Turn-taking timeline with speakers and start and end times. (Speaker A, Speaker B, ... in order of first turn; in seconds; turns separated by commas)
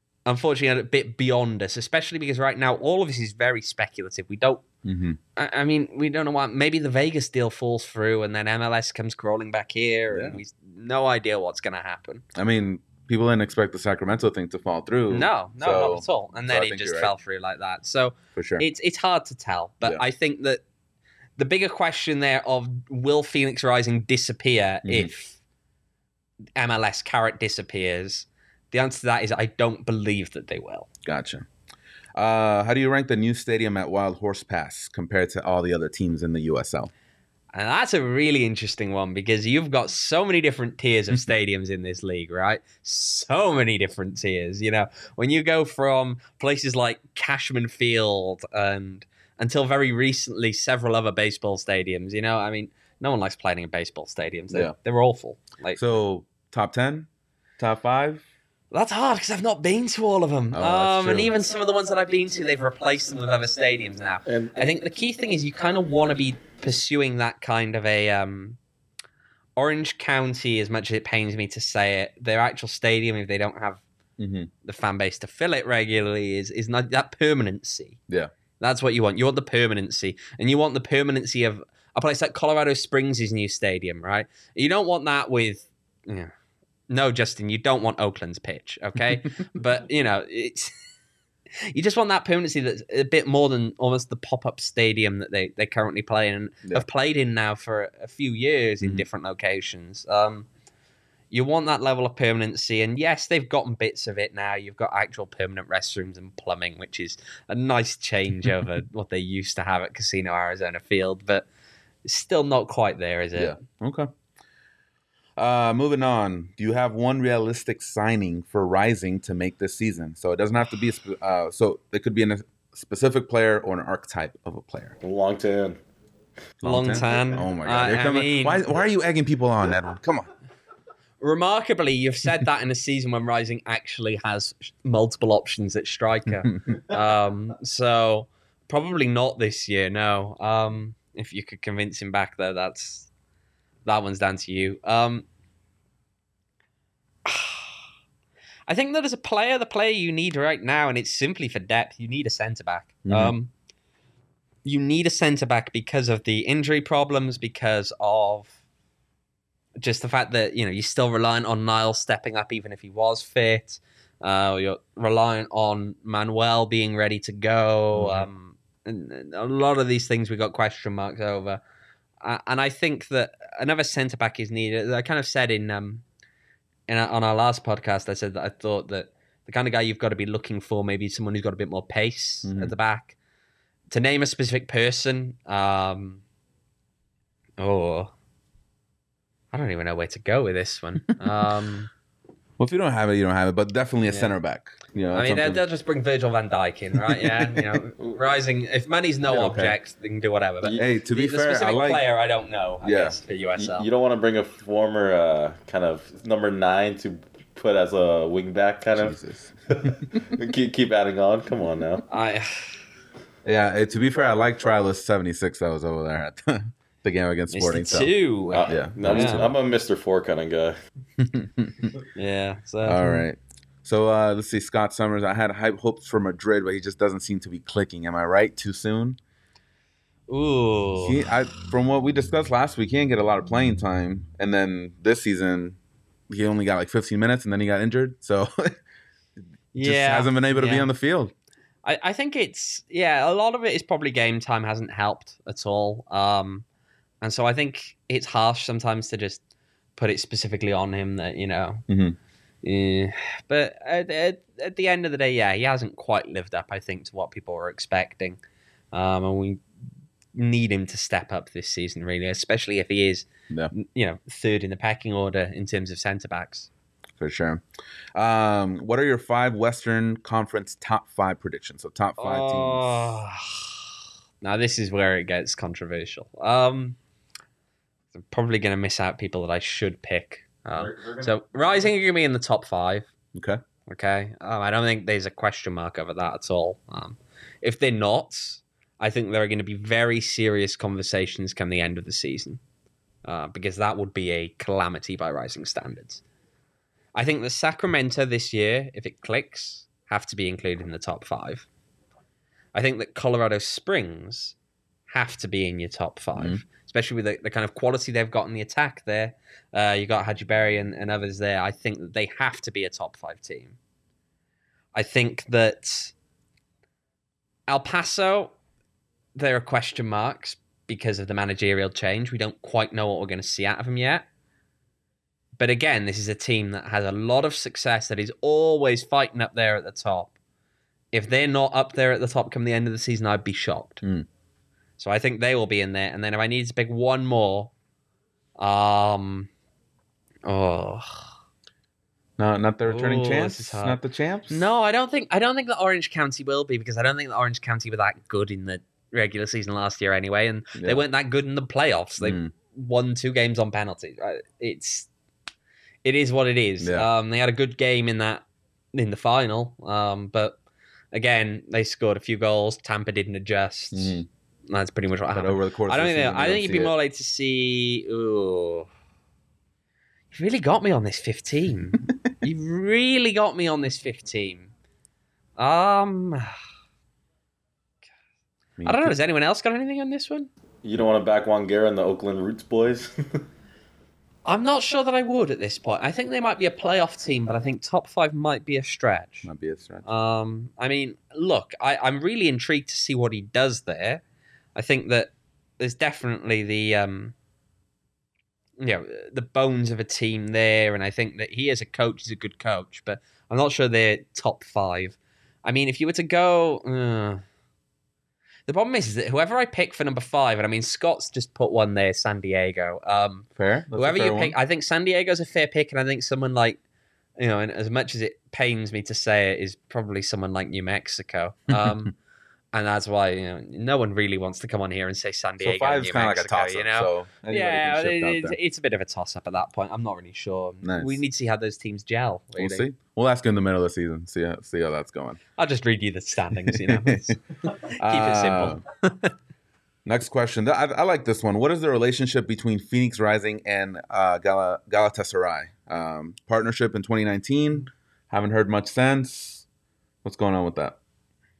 Speaker A: 0.2-4.6, Speaker B: 4.8-5.2, Speaker A: 5.3-12.2, Speaker B: 10.1-10.4, Speaker B: 12.3-17.1, Speaker A: 15.1-20.6, Speaker B: 18.3-18.6, Speaker A: 21.4-25.4, Speaker B: 24.8-25.1, Speaker A: 26.6-30.9, Speaker B: 31.0-31.4, Speaker B: 32.1-36.9, Speaker A: 37.5-55.8, Speaker B: 55.7-57.1, Speaker B: 57.6-58.2, Speaker A: 58.7-68.6, Speaker B: 60.5-61.3, Speaker A: 69.5-73.8, Speaker B: 74.2-74.5, Speaker A: 74.6-78.0, Speaker A: 78.6-86.3, Speaker A: 86.9-90.7, Speaker A: 91.7-100.5, Speaker A: 101.3-111.5, Speaker A: 112.0-113.6, Speaker B: 113.3-114.1, Speaker B: 115.4-124.9, Speaker C: 125.0-125.8, Speaker B: 126.6-130.3, Speaker A: 126.6-128.6, Speaker A: 131.2-143.1, Speaker A: 143.8-145.3, Speaker A: 147.2-147.8, Speaker A: 148.7-153.5, Speaker B: 153.0-153.3, Speaker A: 154.6-158.6, Speaker A: 159.8-171.6, Speaker B: 167.9-168.3, Speaker A: 172.2-176.0, Speaker A: 176.9-183.2, Speaker B: 182.4-182.7, Speaker A: 183.9-186.2, Speaker A: 187.6-188.1, Speaker A: 189.5-191.9, Speaker B: 192.6-195.6, Speaker A: 195.1-203.9, Speaker B: 196.9-197.8, Speaker B: 199.3-199.8, Speaker C: 200.6-200.9, Speaker B: 200.7-202.0, Speaker B: 202.8-203.2, Speaker C: 203.6-209.2, Speaker B: 208.9-210.3, Speaker C: 209.7-212.1, Speaker A: 212.1-212.8, Speaker B: 213.4-219.5, Speaker A: 217.5-219.4, Speaker C: 218.5-220.7, Speaker B: 221.2-221.9, Speaker A: 222.1-223.2, Speaker B: 222.8-229.2, Speaker A: 230.3-231.2, Speaker B: 230.9-235.8, Speaker B: 236.3-238.7, Speaker A: 239.7-240.9, Speaker B: 239.8-241.3, Speaker A: 241.8-246.6, Speaker A: 247.2-249.4, Speaker A: 249.9-251.8, Speaker B: 251.9-252.2, Speaker A: 252.6-258.4, Speaker A: 258.9-259.6, Speaker A: 260.3-266.7, Speaker B: 267.2-267.6, Speaker B: 268.1-273.2, Speaker A: 272.2-273.8, Speaker A: 274.4-277.0, Speaker A: 278.1-283.1, Speaker C: 280.8-281.9, Speaker B: 283.3-283.6, Speaker A: 283.9-292.6, Speaker A: 293.2-296.2, Speaker A: 297.1-301.7, Speaker A: 302.7-304.5, Speaker A: 305.1-313.8, Speaker B: 306.4-306.6, Speaker A: 314.9-316.1, Speaker A: 317.7-318.5, Speaker A: 319.3-324.2, Speaker A: 325.6-330.3, Speaker A: 331.1-334.0, Speaker B: 334.0-334.3, Speaker A: 335.0-337.7, Speaker A: 338.6-339.5, Speaker A: 340.4-341.3, Speaker B: 342.4-344.6, Speaker A: 342.8-355.1, Speaker B: 350.7-351.0, Speaker B: 352.2-352.5, Speaker A: 356.0-360.6, Speaker B: 356.8-357.1, Speaker A: 361.1-368.9, Speaker B: 363.9-364.2, Speaker B: 365.3-366.9, Speaker A: 370.3-374.7, Speaker A: 375.6-376.5, Speaker B: 378.8-379.1, Speaker A: 378.8-380.5, Speaker C: 380.8-383.4, Speaker A: 384.4-389.5, Speaker B: 389.4-390.1, Speaker A: 390.0-394.2, Speaker A: 394.7-397.3, Speaker A: 398.8-407.4, Speaker A: 408.7-416.8, Speaker B: 413.6-414.5, Speaker A: 417.4-422.1, Speaker A: 422.7-432.9, Speaker B: 425.6-428.6, Speaker B: 430.8-431.2, Speaker B: 432.6-435.4, Speaker A: 435.6-439.3, Speaker B: 436.6-437.4, Speaker B: 438.0-438.8, Speaker B: 440.0-449.6, Speaker B: 450.2-451.0